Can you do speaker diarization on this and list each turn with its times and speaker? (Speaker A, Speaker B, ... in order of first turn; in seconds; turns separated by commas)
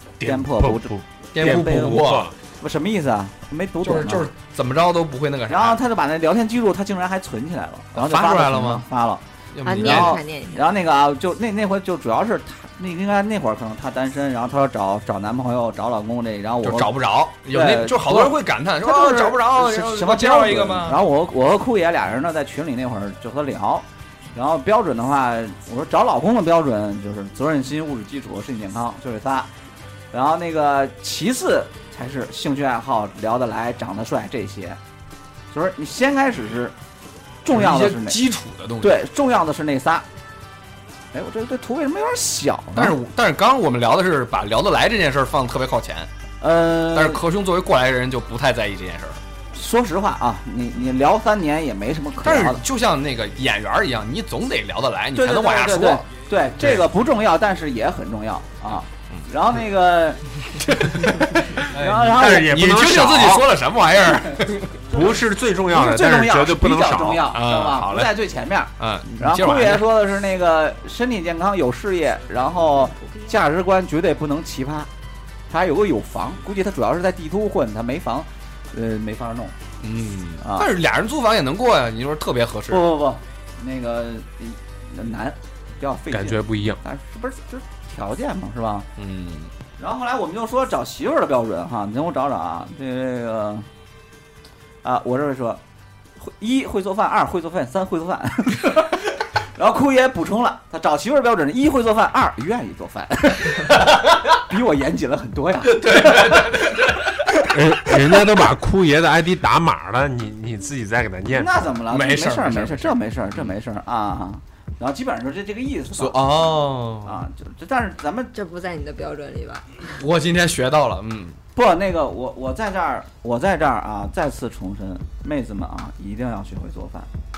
Speaker A: 0.2-2.3, Speaker B: 0.2-4.3, Speaker C: 1.3-2.3, Speaker C: 3.8-5.8, Speaker B: 5.5-16.9, Speaker C: 7.9-8.9, Speaker C: 9.5-10.2, Speaker D: 9.6-10.6, Speaker C: 16.6-21.0, Speaker B: 17.5-29.5, Speaker B: 30.1-34.8, Speaker B: 35.5-36.8, Speaker B: 37.4-38.2, Speaker C: 37.5-39.0, Speaker B: 38.8-40.0, Speaker B: 41.1-43.0, Speaker C: 42.7-46.1, Speaker B: 46.4-47.2, Speaker C: 46.9-49.2, Speaker B: 49.5-52.6, Speaker C: 52.2-56.1, Speaker B: 55.1-62.6, Speaker C: 61.7-64.8, Speaker A: 62.0-63.5, Speaker A: 64.9-67.3, Speaker B: 64.9-65.2, Speaker B: 65.7-74.9, Speaker C: 67.3-68.2, Speaker C: 68.8-69.9, Speaker B: 75.5-79.5, Speaker C: 79.8-82.9, Speaker B: 80.4-80.7, Speaker B: 82.7-88.9, Speaker A: 86.1-86.8, Speaker C: 89.0-89.5, Speaker B: 89.8-93.7, Speaker B: 94.8-95.6, Speaker B: 96.2-106.9, Speaker C: 105.7-107.0, Speaker A: 107.5-111.7, Speaker B: 111.3-118.3, Speaker C: 111.9-113.5, Speaker C: 116.0-117.2, Speaker D: 118.3-119.7, Speaker C: 119.9-121.4, Speaker B: 121.5-127.1